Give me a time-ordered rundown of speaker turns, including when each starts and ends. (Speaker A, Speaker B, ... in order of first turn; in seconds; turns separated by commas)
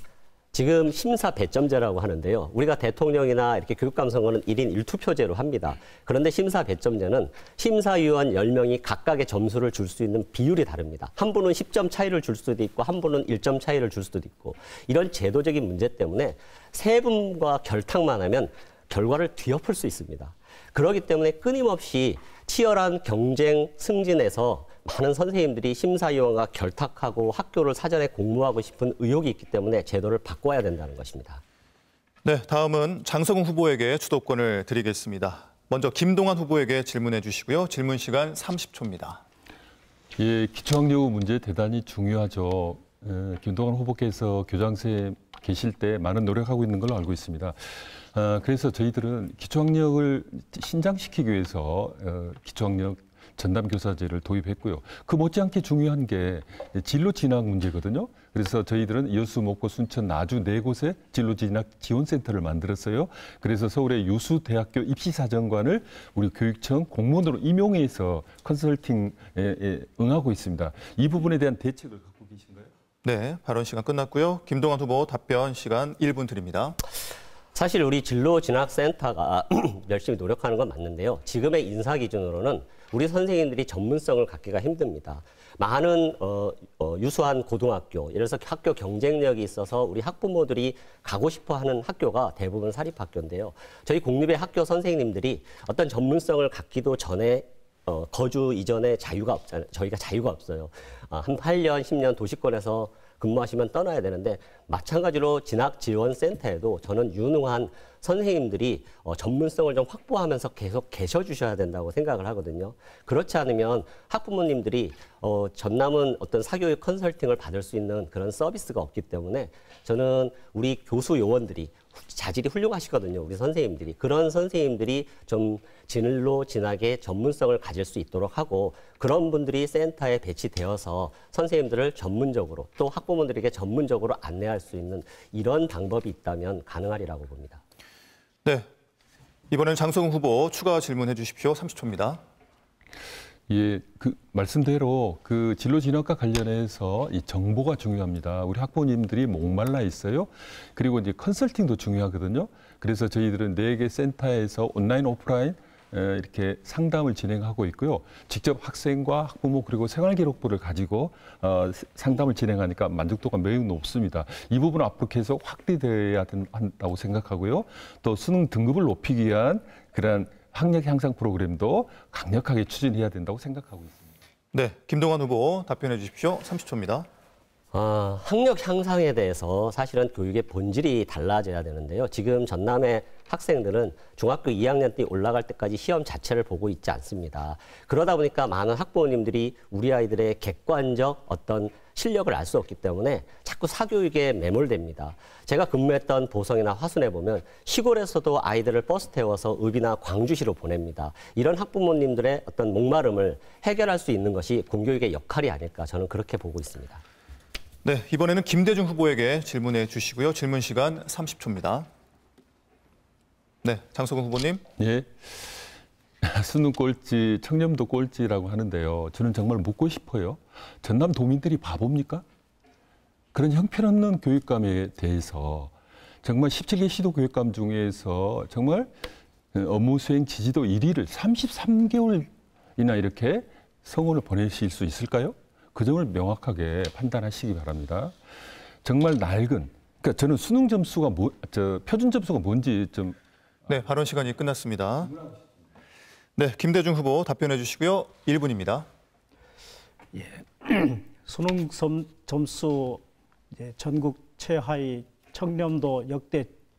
Speaker A: 0.5-31.4, Speaker B: 32.2-39.2, Speaker C: 40.2-72.7, Speaker B: 73.0-76.8, Speaker A: 77.5-137.6, Speaker B: 139.5-142.2, Speaker C: 143.5-174.1, Speaker B: 174.5-177.1, Speaker A: 177.7-207.0, Speaker B: 207.8-211.9, Speaker B: 213.6-214.6, Speaker C: 214.8-215.7, Speaker C: 216.2-222.2, Speaker C: 223.3-228.9, Speaker C: 229.5-238.2, Speaker C: 238.8-243.2, Speaker B: 243.7-245.1, Speaker B: 246.4-248.9, Speaker D: 250.1-253.0, Speaker D: 253.5-256.5